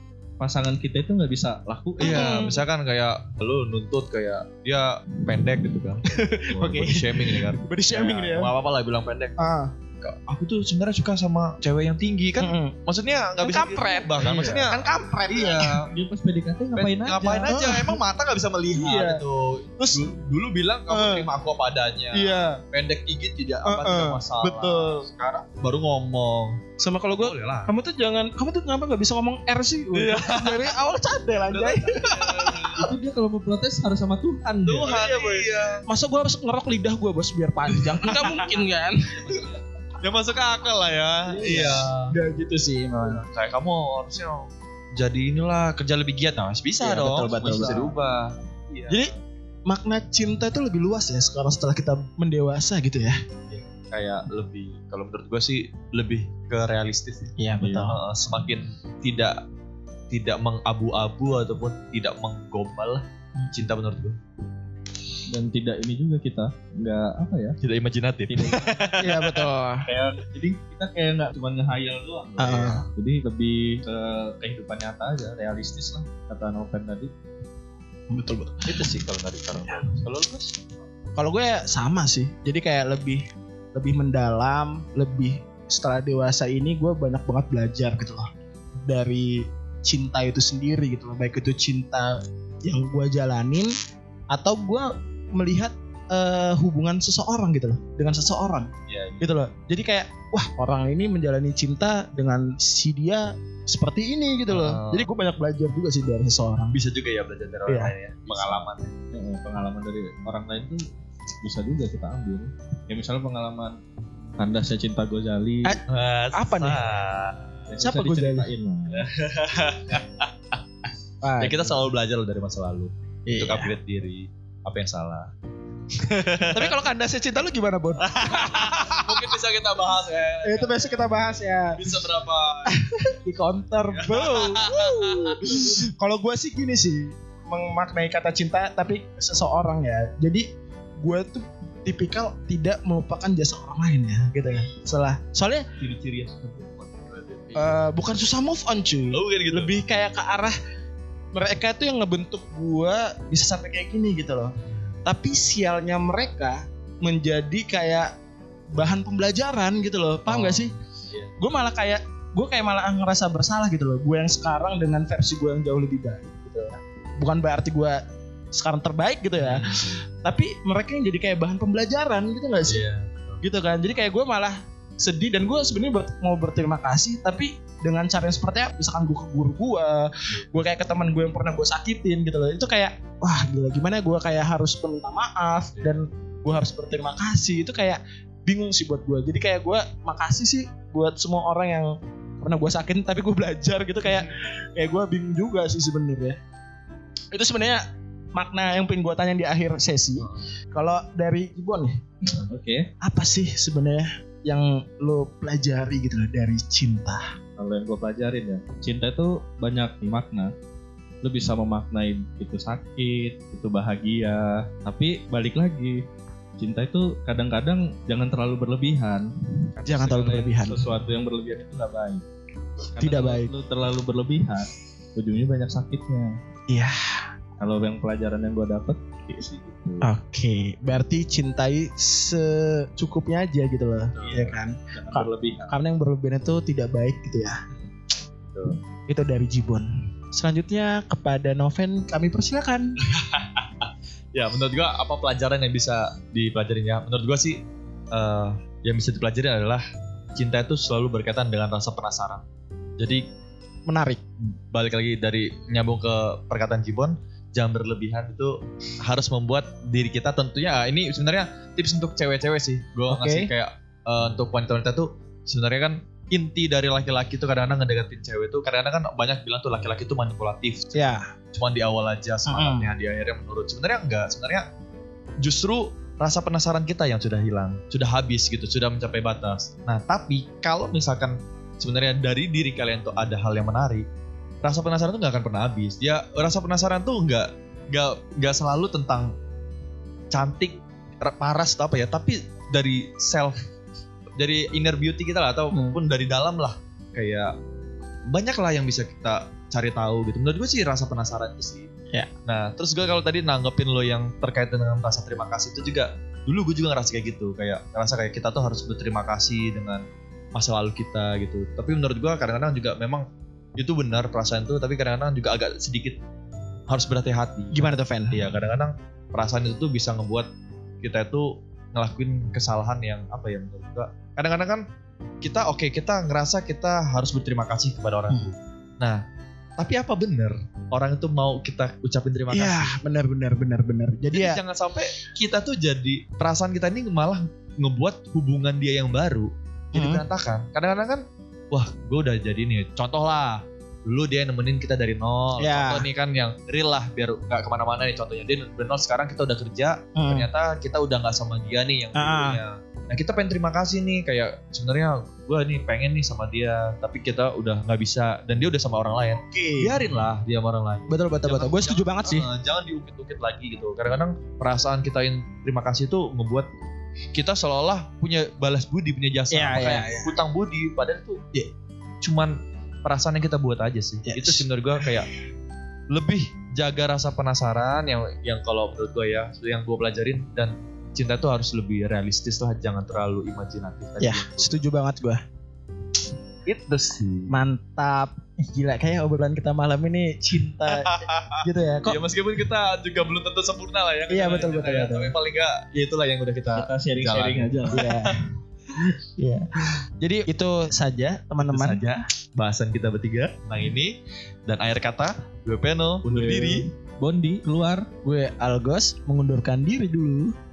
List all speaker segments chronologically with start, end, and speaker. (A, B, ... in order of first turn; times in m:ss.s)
0:00.4-0:02.5 A
0:02.0-0:15.9 B
0:02.0-0:02.6 C
0:06.1-0:08.5 C
0:09.4-0:09.7 C
0:12.4-0:12.8 C
0:13.4-0:15.8 C
0:15.9-0:17.5 A
0:16.7-0:26.6 B
0:17.5-0:18.0 C
0:18.7-0:19.2 C
0:19.8-0:20.1 C
0:20.9-0:21.3 C
0:22.1-0:22.6 C
0:23.6-0:25.0 C
0:26.8-0:32.8 C
0:27.2-0:27.7 B
0:29.9-0:30.8 B
0:31.5-0:32.8 B
0:32.7-0:35.0 A
0:34.6-0:35.8 B
0:34.8-0:39.4 C
0:37.8-0:38.6 B
0:39.1-0:42.1 B
0:41.3-0:43.2 C
0:42.9-0:49.2 B
0:46.8-0:47.9 C
0:47.1-0:47.9 A
0:49.7-0:53.2 C
0:53.5-0:59.4 B
0:57.4-0:58.0 C
0:57.6-0:57.9 A
1:00.1-1:04.2 B
1:05.3-1:07.6 A
1:07.6-1:09.5 B
1:08.3-1:09.0 A
1:09.0-1:09.9 C
1:09.8-1:17.1 A
1:12.4-1:12.8 C
1:12.4-1:12.9 B
1:18.1-1:18.9 C
1:18.6-1:20.5 B
1:21.2-1:28.3 C
1:28.8-1:33.7 C
1:34.3-1:38.7 C
1:38.9-1:39.4 B
1:39.2-1:46.8 C
1:44.5-1:45.1 B
1:46.7-1:48.9 B
1:47.7-1:47.9 C
1:48.3-1:50.8 A
1:51.4-1:53.8 A
1:54.4-1:55.8 A
1:55.9-1:57.4 B
1:56.3-1:56.8 C
1:57.7-1:59.1 A
1:57.8-1:58.5 C
1:58.9-2:00.6 B
2:01.2-2:01.8 C
2:01.4-2:05.3 B
2:03.2-2:03.7 C
2:05.9-2:06.7 B
2:06.5-2:09.3 C
2:08.0-2:12.8 B
2:10.4-2:11.8 C
2:12.6-2:20.5 C
2:13.8-2:15.8 B
2:21.0-2:25.7 C
2:25.8-2:27.9 B
2:27.5-2:30.6 C
2:29.1-2:29.7 B
2:31.3-2:38.1 C
2:38.7-2:40.7 C
2:40.3-2:41.3 B
2:41.4-2:52.8 C
2:49.4-2:49.8 B
2:52.7-2:53.4 B
2:53.4-3:16.4 C
3:17.3-3:17.8 C
3:18.3-3:22.0 C
3:22.5-3:22.9 A
3:23.0-3:27.3 C
3:27.6-3:30.5 A
3:31.2-3:36.0 A
3:36.6-3:42.2 A
3:39.8-3:40.8 C
3:42.9-3:46.3 A
3:43.0-3:43.5 C
3:46.7-3:47.3 C
3:47.6-3:50.1 A
3:50.0-3:57.6 C
3:54.2-3:54.5 B
3:54.9-3:55.7 A
3:59.1-4:02.9 C
4:03.0-4:09.8 B
4:10.4-4:12.4 B
4:13.0-4:13.2 B
4:13.9-4:14.2 C
4:14.4-4:31.0 B
4:23.1-4:23.5 C
4:30.9-4:31.2 C
4:31.5-4:34.6 B
4:32.4-4:32.9 C
4:35.4-4:44.0 B
4:44.6-4:49.3 B
4:50.3-4:53.6 B
4:54.4-4:57.5 B
4:55.7-4:56.0 C
4:58.3-5:01.9 B
5:02.4-5:13.2 B
5:13.8-5:16.2 B
5:16.9-5:20.5 B
5:17.7-5:18.4 C
5:21.0-5:24.8 B
5:25.4-5:29.2 B
5:29.8-5:33.0 B
5:32.5-5:34.6 C
5:34.3-6:06.7 B
5:39.9-5:40.2 C
5:45.6-5:46.0 C
5:50.1-5:50.5 C
5:52.1-5:52.6 C
5:59.4-5:59.9 C
6:01.1-6:02.5 C
6:07.3-6:11.4 B
6:09.5-6:10.3 C
6:12.2-6:15.3 B
6:14.2-6:15.2 C
6:16.1-6:24.8 B
6:24.2-6:25.4 C
6:26.6-6:27.5 B
6:27.5-6:32.2 C
6:30.9-6:38.3 B
6:34.3-6:35.3 C
6:36.7-6:38.0 A
6:37.9-6:38.4 C
6:39.4-6:42.1 C
6:41.6-6:44.2 B
6:44.7-6:46.8 B
6:46.2-6:48.1 A
6:48.2-6:50.5 C